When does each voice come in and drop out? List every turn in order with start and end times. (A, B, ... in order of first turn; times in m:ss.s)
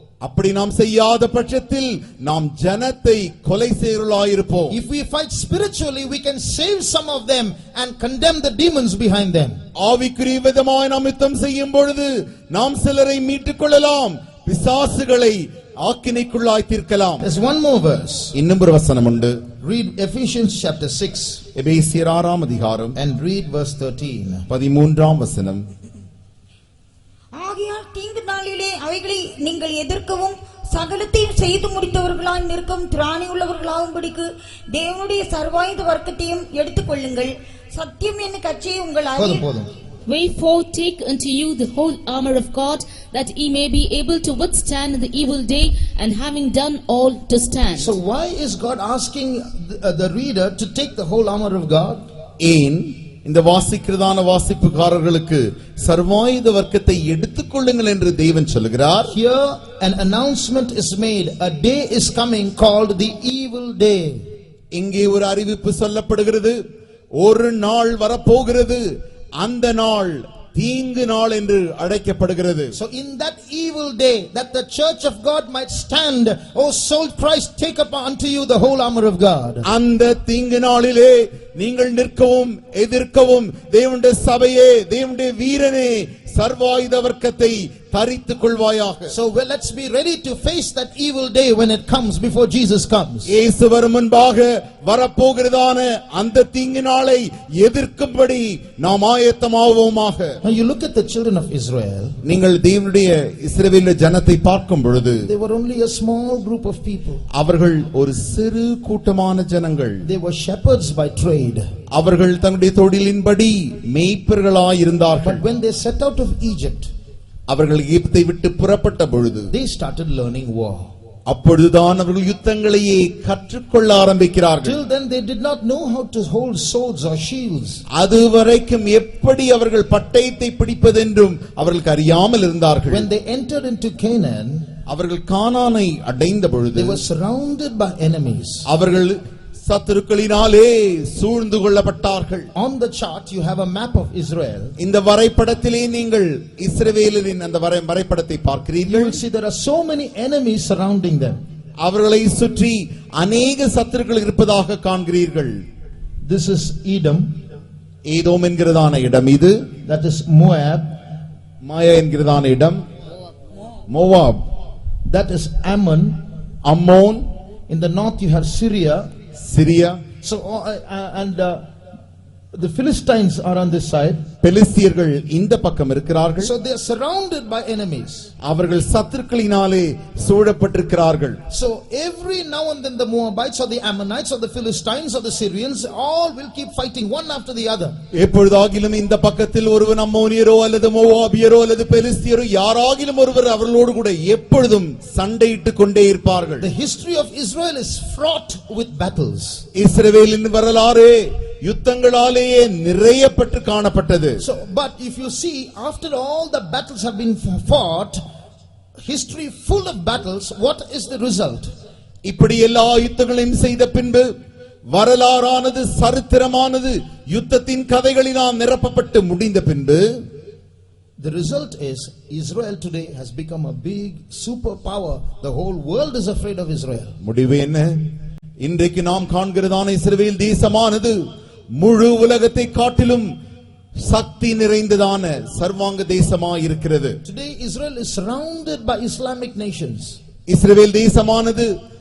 0:00.2-0:04.8 A
0:04.7-0:09.6 B
0:09.8-0:17.2 A
0:17.2-0:18.3 B
0:18.3-0:19.4 A
0:19.6-0:21.4 B
0:21.6-0:23.0 A
0:23.0-0:24.5 B
0:24.5-0:25.6 A
0:27.3-0:39.4 C
0:39.2-0:39.7 B
0:40.1-0:47.9 D
0:47.8-0:52.0 B
0:52.4-0:59.1 A
0:59.1-1:04.2 B
1:04.8-1:06.6 A
1:07.2-1:08.8 A
1:09.4-1:12.8 A
1:12.8-1:19.6 B
1:19.6-1:29.1 A
1:29.1-1:33.3 B
1:33.3-1:40.4 A
1:40.4-1:42.2 B
1:42.2-1:45.3 A
1:45.2-1:47.2 B
1:47.3-1:50.0 A
1:50.0-1:51.7 B
1:51.9-1:55.4 A
1:55.2-1:56.9 B
1:57.5-1:59.5 A
1:59.5-2:00.9 B
2:01.3-2:04.8 A
2:04.6-2:07.8 B
2:08.0-2:13.1 A
2:12.9-2:14.7 B
2:14.9-2:17.0 A
2:16.8-2:18.7 B
2:18.7-2:22.5 A
2:22.6-2:24.8 B
2:24.8-2:29.2 A
2:28.8-2:31.4 B
2:31.8-2:35.6 A
2:36.2-2:37.3 B
2:38.1-2:39.6 A
2:39.8-2:41.0 B
2:41.6-2:42.8 A
2:43.9-2:44.4 A
2:45.1-2:46.2 B
2:46.6-2:47.3 A
2:47.7-2:49.1 B
2:49.4-2:50.0 A
2:50.2-2:51.6 B
2:52.5-2:54.2 B
2:54.4-2:56.5 A
2:56.4-2:58.3 B
2:58.4-3:01.4 A
3:01.5-3:07.9 B
3:08.2-3:16.7 A
3:16.6-3:19.6 B
3:19.7-3:24.4 A
3:24.4-3:28.2 B
3:29.0-3:31.7 B
3:32.2-3:34.3 A
3:34.9-3:40.0 A
3:41.2-3:47.2 B
3:47.2-3:48.0 A
3:48.6-3:51.2 A
3:51.8-3:53.3 A
3:54.0-3:57.2 A
3:57.2-4:00.2 B
4:00.5-4:01.7 A